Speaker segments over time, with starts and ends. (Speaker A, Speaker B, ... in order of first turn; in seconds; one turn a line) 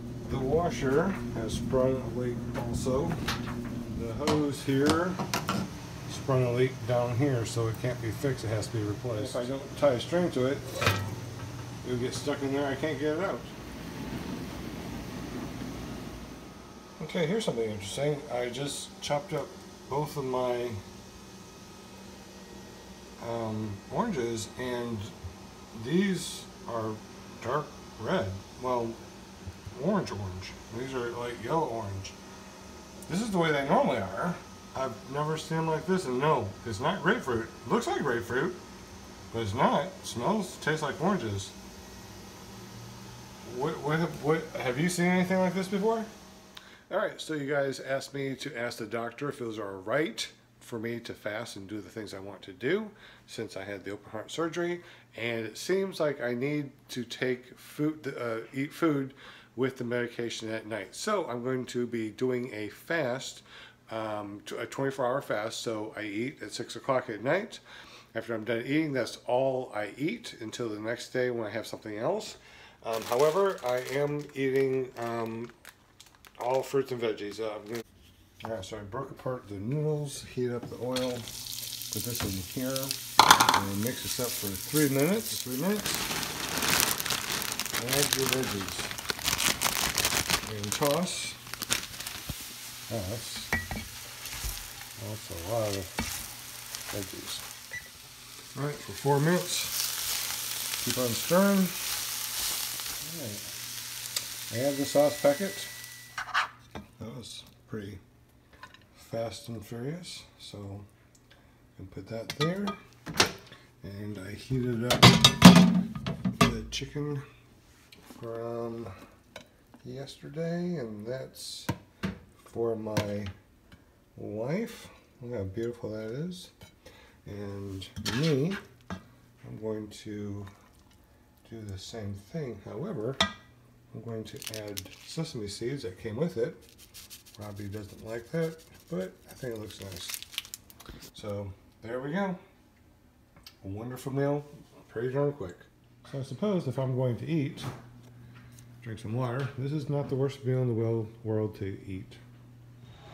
Speaker A: 0.2-3.2
Speaker A: 3.8-5.2
Speaker A: 6.1-10.9
Speaker A: 11.8-13.5
Speaker A: 17.0-20.8
Speaker A: 23.2-25.1
Speaker A: 25.7-29.0
Speaker A: 29.7-32.2
Speaker A: 33.1-38.6
Speaker A: 39.3-41.5
Speaker A: 43.4-46.1
Speaker A: 46.9-75.5
Speaker A: 76.4-77.8
Speaker A: 78.4-81.3
Speaker A: 81.9-86.1
Speaker A: 87.8-88.9
Speaker A: 90.4-91.4
Speaker A: 92.9-93.5
Speaker A: 95.0-95.9
Speaker A: 96.9-97.4
Speaker A: 98.5-99.8
Speaker A: 100.8-101.9
Speaker A: 103.0-103.4
Speaker A: 104.5-105.7
Speaker A: 107.0-108.0
Speaker A: 108.9-110.9
Speaker A: 111.8-112.8
Speaker A: 113.8-115.4
Speaker A: 116.3-117.2
Speaker A: 118.0-118.9
Speaker A: 119.8-121.7
Speaker A: 122.4-123.3
Speaker A: 124.1-126.5
Speaker A: 127.2-128.6
Speaker A: 129.4-130.5
Speaker A: 131.4-133.2
Speaker A: 133.9-136.6
Speaker A: 137.3-140.2
Speaker A: 141.1-142.4
Speaker A: 143.6-147.7
Speaker A: 148.8-152.2